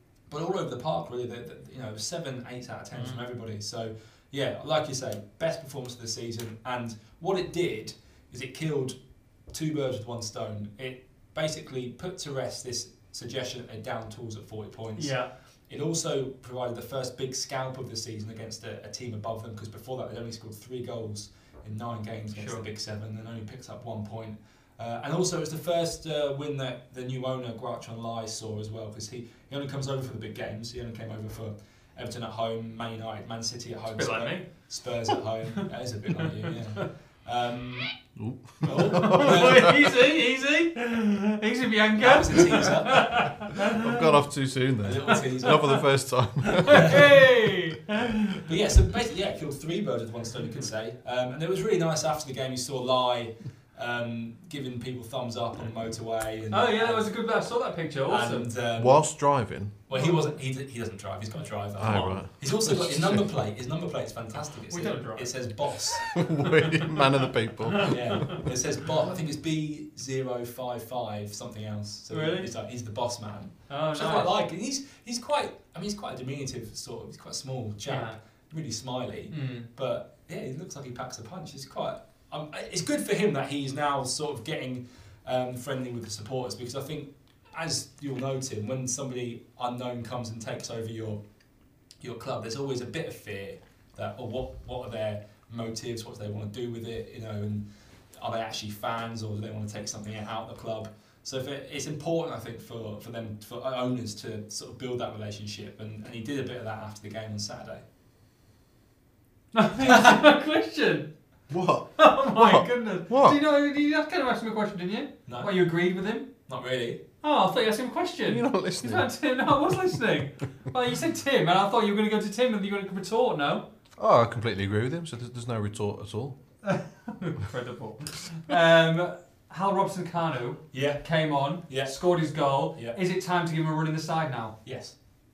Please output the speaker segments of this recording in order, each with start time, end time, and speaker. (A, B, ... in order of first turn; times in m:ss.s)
0:00.3-0:09.0 A
0:02.9-0:03.2 B
0:09.5-0:15.2 A
0:15.0-0:15.3 B
0:15.7-0:37.9 A
0:22.3-0:22.6 B
0:33.9-0:34.5 B
0:36.2-0:36.9 B
0:38.2-0:39.7 C
0:38.6-0:39.9 A
0:38.8-0:44.0 B
0:42.0-0:43.4 A
0:43.6-0:47.2 C
0:44.8-0:45.8 A
0:46.4-0:48.4 B
0:46.7-0:47.0 A
0:48.4-0:57.1 A
0:56.5-0:58.5 B
0:58.1-0:59.0 A
0:58.8-0:59.7 C
0:59.9-1:06.3 A
0:59.9-1:00.2 B
1:01.8-1:03.2 C
1:01.9-1:02.2 B
1:04.7-1:05.3 B
1:06.1-1:08.4 C
1:06.4-1:07.0 B
1:07.7-1:08.4 B
1:07.8-1:31.2 A
1:12.1-1:12.5 B
1:13.7-1:14.3 B
1:17.9-1:18.2 B
1:19.3-1:19.7 B
1:32.0-1:37.6 A
1:38.2-1:47.8 A
1:49.5-1:51.1 B
1:51.5-1:53.4 C
1:52.0-1:56.3 B
1:55.3-1:55.6 A
1:56.5-1:57.0 A
1:57.2-2:03.7 B
1:58.3-1:59.1 C
2:04.0-2:06.4 C
2:06.6-2:14.5 B
2:10.7-2:12.0 A
2:14.6-2:14.9 A